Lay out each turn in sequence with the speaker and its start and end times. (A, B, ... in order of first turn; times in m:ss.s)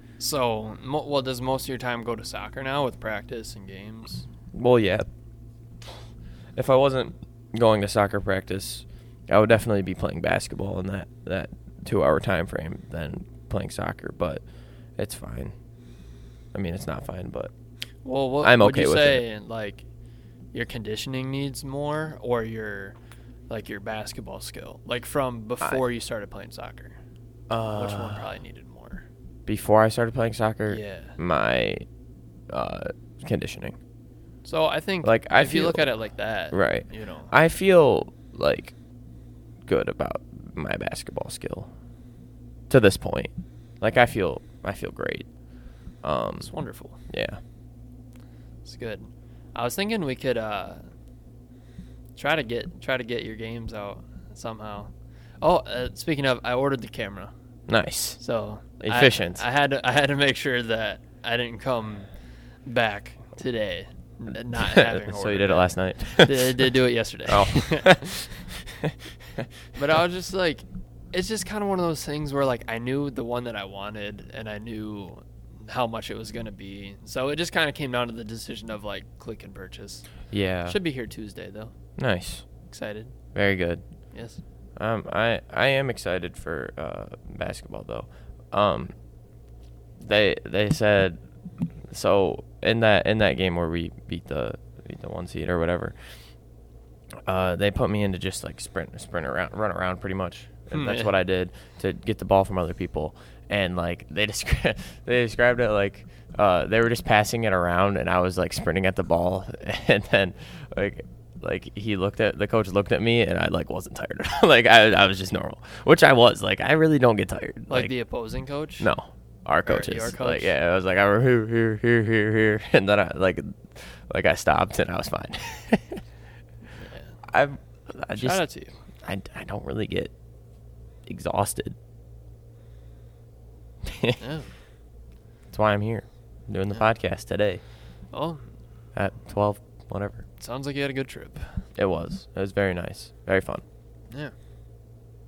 0:00.2-0:04.3 A
0:04.5-0:05.1 B
0:06.6-0:14.4 B
0:15.0-0:15.6 B
0:16.5-0:17.5 B
0:18.0-0:19.8 A
0:18.4-0:19.2 B
0:20.5-0:23.0 A
0:23.5-0:27.0 A
0:27.5-0:28.3 B
0:27.7-0:29.1 A
0:29.5-0:31.9 B
0:30.7-0:31.2 A
0:32.5-0:33.8 B
0:34.4-0:37.3 A
0:35.0-0:35.9 B
0:36.5-0:38.8 B
0:39.7-0:41.7 B
0:42.7-0:45.3 B
0:46.0-0:46.5 B
0:46.4-0:47.0 A
0:47.1-0:47.4 B
0:48.6-0:50.8 A
0:52.2-0:57.3 A
0:57.7-0:58.2 B
0:58.2-1:02.1 A
0:58.8-0:59.4 B
1:02.7-1:08.3 A
1:04.5-1:06.7 B
1:07.3-1:09.5 B
1:09.8-1:20.0 A
1:20.3-1:20.8 B
1:20.7-1:21.7 A
1:22.0-1:22.4 B
1:22.7-1:23.2 A
1:23.4-1:23.8 B
1:24.1-1:24.4 A
1:24.8-1:28.9 B
1:30.0-1:31.2 B
1:31.9-1:36.0 B
1:37.3-1:57.9 B
1:40.7-1:41.1 A
1:57.7-1:58.9 A
1:58.8-2:06.0 B
1:59.7-2:00.5 A
2:06.8-2:07.2 A
2:07.3-2:08.4 B
2:08.1-2:08.7 A
2:09.0-2:10.1 B
2:11.1-2:11.8 B
2:13.8-2:14.2 B
2:14.2-2:14.5 A
2:15.5-2:17.6 B
2:18.1-2:18.4 A
2:19.0-2:20.2 B
2:20.4-2:21.6 A
2:21.8-2:23.6 B